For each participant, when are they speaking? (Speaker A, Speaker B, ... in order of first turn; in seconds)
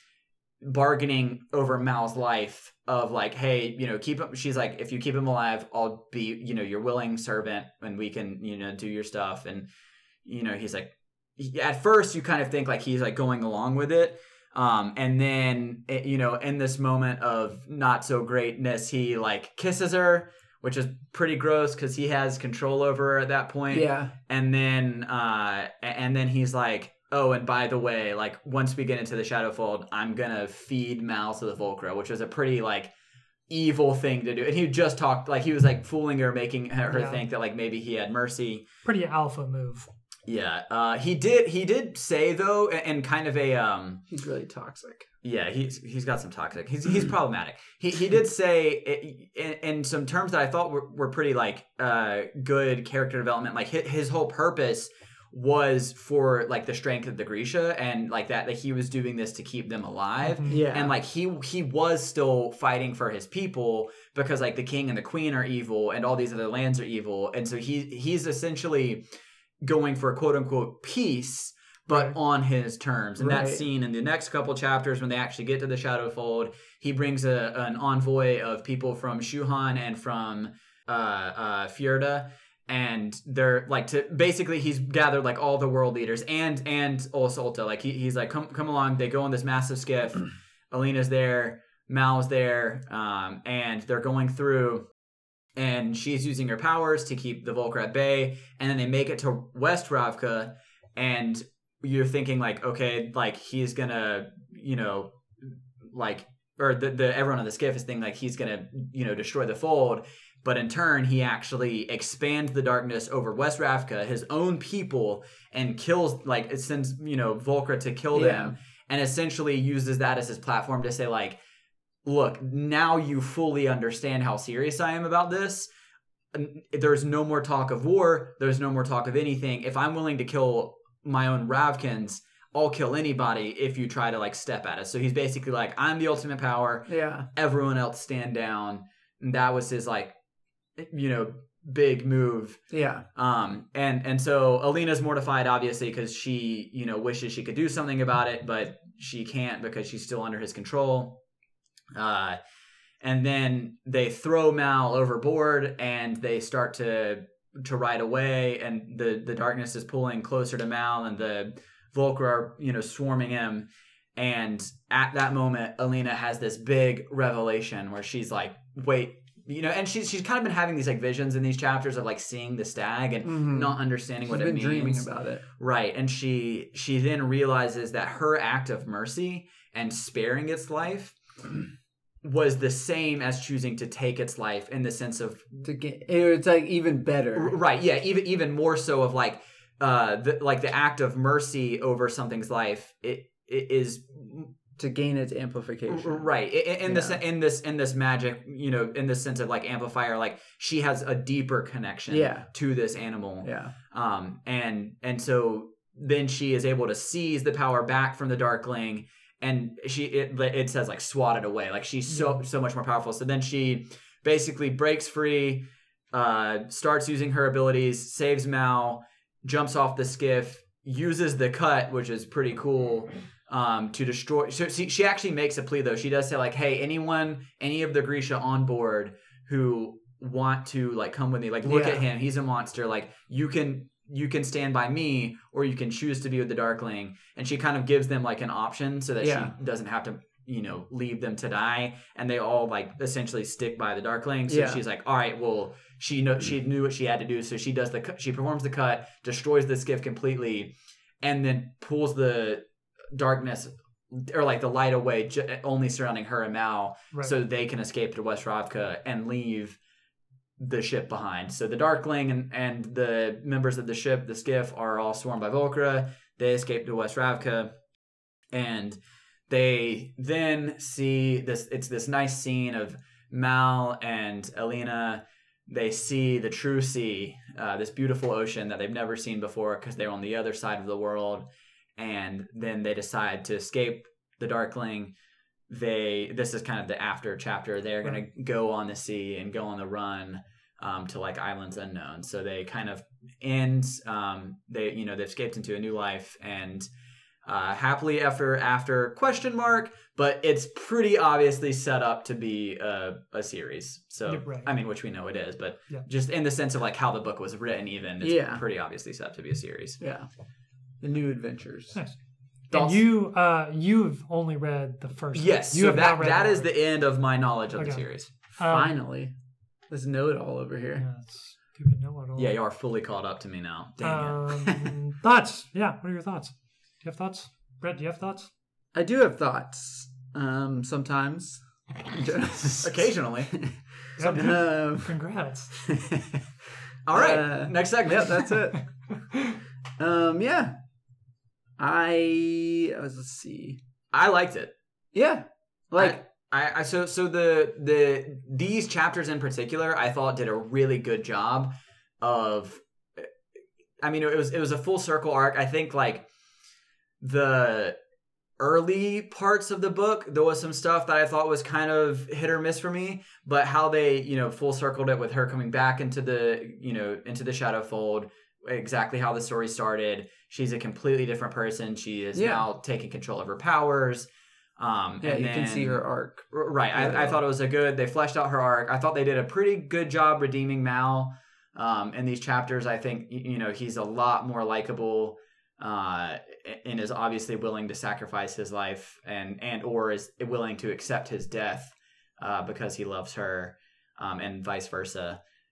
Speaker A: 0.6-9.7, 10.2-32.9, 33.5-38.6, 40.3-44.0, 45.2-69.0, 69.6-94.8, 95.5-121.4, 122.0-125.7, 126.3-140.1, 140.8-142.6, 143.1-151.2, 151.9-152.4, 153.0-181.1, 182.2-185.7, 187.3-194.5, 195.9-259.8, 260.6-267.7, 268.5-269.0, 269.5-285.1, 285.7-296.9, 297.4-310.0, 312.7-313.0, 315.3-318.3, 322.4-324.8, 332.8-333.5, 337.1-338.6, 344.1-344.7, 346.0-353.3, 354.0-356.2, 357.2-357.9, 358.6-395.4
Speaker B: 23.7-24.1, 44.1-45.1, 60.5-60.9, 73.2-73.7, 118.1-118.5, 136.9-137.3, 142.7-143.0, 173.2-175.4, 185.6-187.5, 194.8-196.3, 196.8-197.2, 202.1-202.5, 203.4-203.7, 231.6-232.0, 239.2-239.5, 244.5-244.8, 308.2-308.6, 310.0-310.3, 311.0-312.0, 318.7-319.3, 319.9-321.0, 328.9-335.1, 335.8-336.4, 337.1-338.8, 340.0-340.7, 341.8-343.8, 345.1-346.2, 372.3-372.7, 375.2-377.4
Speaker C: 36.9-37.2, 38.8-39.9, 60.2-60.6, 304.3-304.7, 312.7-316.7, 317.8-318.1, 318.6-318.9, 320.9-322.5, 324.0-328.5, 334.2-335.7, 338.7-339.6